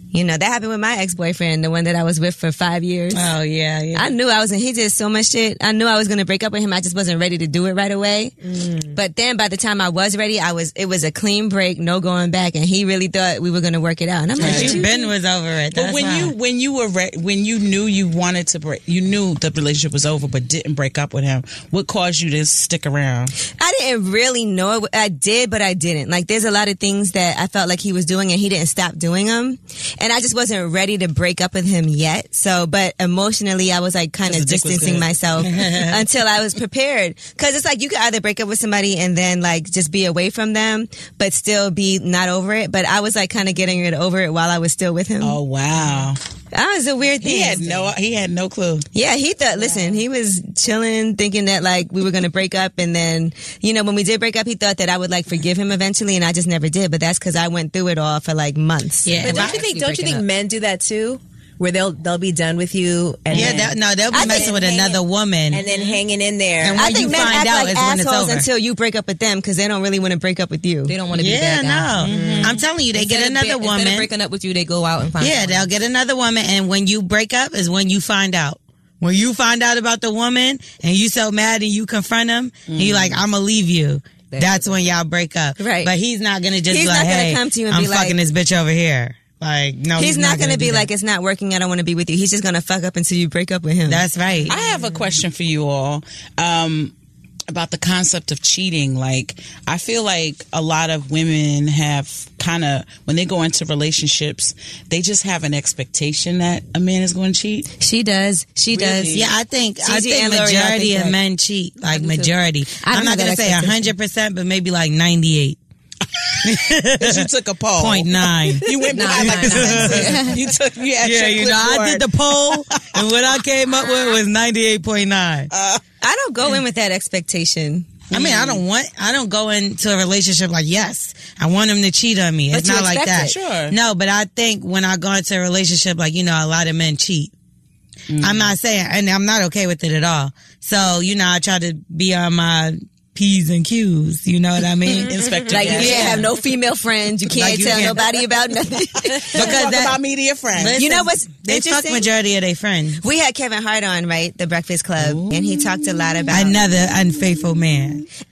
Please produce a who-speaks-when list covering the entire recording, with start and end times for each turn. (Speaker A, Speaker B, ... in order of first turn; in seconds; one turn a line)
Speaker A: 0.1-3.2
Speaker B: 3.1-4.1
Speaker A: 3.9-8.3
Speaker C: 8.4-8.9
Speaker A: 8.9-15.0
Speaker B: 14.4-16.3
Speaker D: 14.4-14.8
Speaker D: 15.7-23.3
Speaker A: 23.6-45.4
Speaker D: 34.2-35.6
Speaker B: 35.4-36.0
Speaker D: 45.2-46.2
Speaker A: 46.5-47.9
Speaker D: 47.2-48.9
Speaker A: 48.9-59.2
Speaker B: 59.0-59.6
Speaker C: 59.2-67.1
Speaker E: 59.2-60.2
Speaker B: 63.3-65.6
Speaker D: 63.3-63.7
Speaker A: 64.1-64.5
Speaker E: 65.6-66.0
Speaker B: 66.6-68.5
Speaker A: 66.8-70.9
Speaker E: 70.9-72.0
Speaker B: 71.1-74.1
Speaker C: 72.0-72.6
Speaker D: 72.0-72.6
Speaker E: 72.9-75.7
Speaker B: 75.2-90.9
Speaker D: 82.7-83.2
Speaker E: 84.3-84.9
Speaker A: 85.6-85.9
Speaker A: 86.7-88.2
Speaker A: 90.0-94.0
Speaker B: 93.9-94.6
Speaker D: 94.5-96.9
Speaker C: 94.7-95.0
Speaker D: 97.5-107.7
Speaker A: 107.8-109.3
Speaker D: 108.7-109.3
Speaker B: 109.1-115.6
Speaker A: 109.8-111.2
Speaker E: 111.9-112.3
Speaker A: 112.8-113.9
Speaker B: 116.4-120.3
Speaker D: 116.4-123.0
Speaker E: 118.9-120.4
Speaker B: 121.0-125.5
Speaker D: 125.5-125.8
Speaker A: 126.0-127.9
Speaker D: 128.1-128.6
Speaker B: 128.1-137.3
Speaker A: 132.6-133.2
Speaker D: 133.2-133.8
Speaker D: 138.1-138.5
Speaker B: 138.2-146.3
Speaker D: 144.9-146.3
Speaker A: 145.5-149.7
Speaker B: 147.3-148.0
Speaker D: 149.2-150.8
Speaker B: 149.3-150.0
Speaker B: 150.5-153.0
Speaker A: 150.8-152.1
Speaker A: 153.0-156.6
Speaker D: 155.0-156.7
Speaker B: 156.3-158.0